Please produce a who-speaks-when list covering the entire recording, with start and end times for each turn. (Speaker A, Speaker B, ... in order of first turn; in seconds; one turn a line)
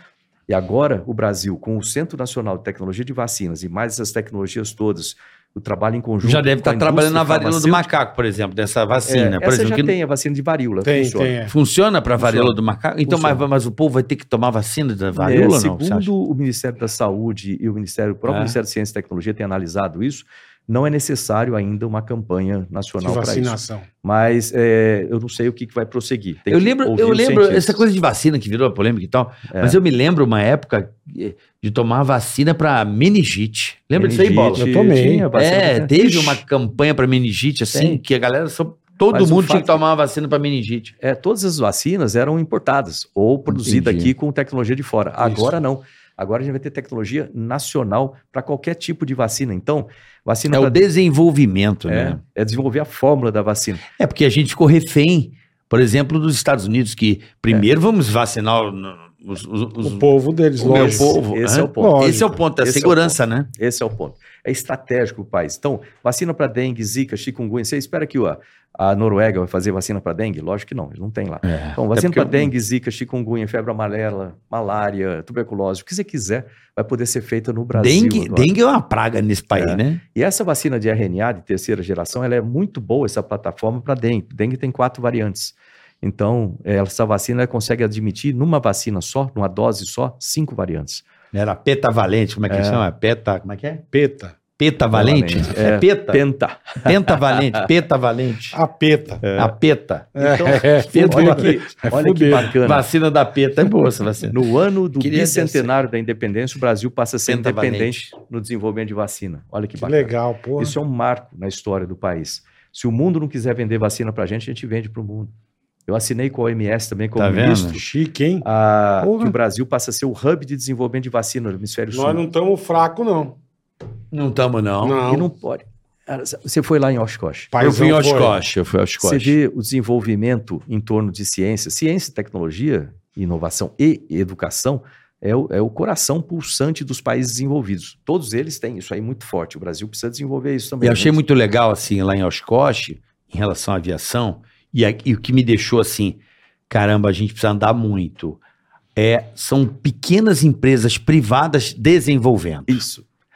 Speaker A: 0.5-7.9
Speaker B: 6.2-9.9
Speaker A: 9.1-11.4
Speaker C: 10.8-11.5
Speaker B: 11.5-16.1
Speaker A: 12.2-12.6
Speaker A: 13.1-13.4
Speaker A: 15.1-27.8
Speaker B: 18.3-18.6
Speaker C: 23.0-23.9
Speaker B: 26.5-34.6
Speaker A: 29.5-29.8
Speaker A: 33.9-36.4
Speaker C: 34.6-35.3
Speaker B: 35.3-40.9
Speaker A: 37.7-38.0
Speaker A: 39.1-39.8
Speaker A: 41.0-50.8
Speaker B: 43.5-44.1
Speaker C: 45.2-45.5
Speaker B: 50.5-52.2
Speaker A: 51.9-53.9
Speaker B: 54.0-60.0
Speaker C: 59.8-61.2
Speaker B: 60.6-63.5
Speaker A: 60.6-78.5
Speaker C: 61.8-62.4
Speaker B: 71.4-72.5
Speaker B: 77.7-80.0
Speaker A: 79.5-91.0
Speaker B: 91.3-93.8
Speaker A: 92.5-92.8
Speaker C: 93.9-94.4
Speaker B: 94.6-96.2
Speaker A: 94.9-97.6
Speaker B: 96.8-98.6
Speaker C: 98.5-99.2
Speaker A: 99.2-99.5
Speaker B: 99.4-100.1
Speaker A: 100.2-102.9
Speaker C: 100.2-102.5
Speaker B: 100.7-101.6
Speaker B: 102.6-104.4
Speaker A: 104.3-115.3
Speaker B: 105.0-105.7
Speaker B: 107.3-108.1
Speaker C: 109.8-110.8
Speaker A: 115.9-117.8
Speaker B: 117.2-117.8
Speaker C: 117.7-118.5
Speaker A: 118.4-122.2
Speaker C: 119.0-119.4
Speaker C: 121.9-123.4
Speaker B: 124.1-125.0
Speaker C: 124.8-125.3
Speaker A: 125.0-127.5
Speaker C: 127.5-128.4
Speaker B: 127.6-129.4
Speaker A: 129.0-141.2
Speaker B: 140.8-146.2
Speaker B: 146.7-148.4
Speaker B: 148.9-152.8
Speaker A: 152.7-153.1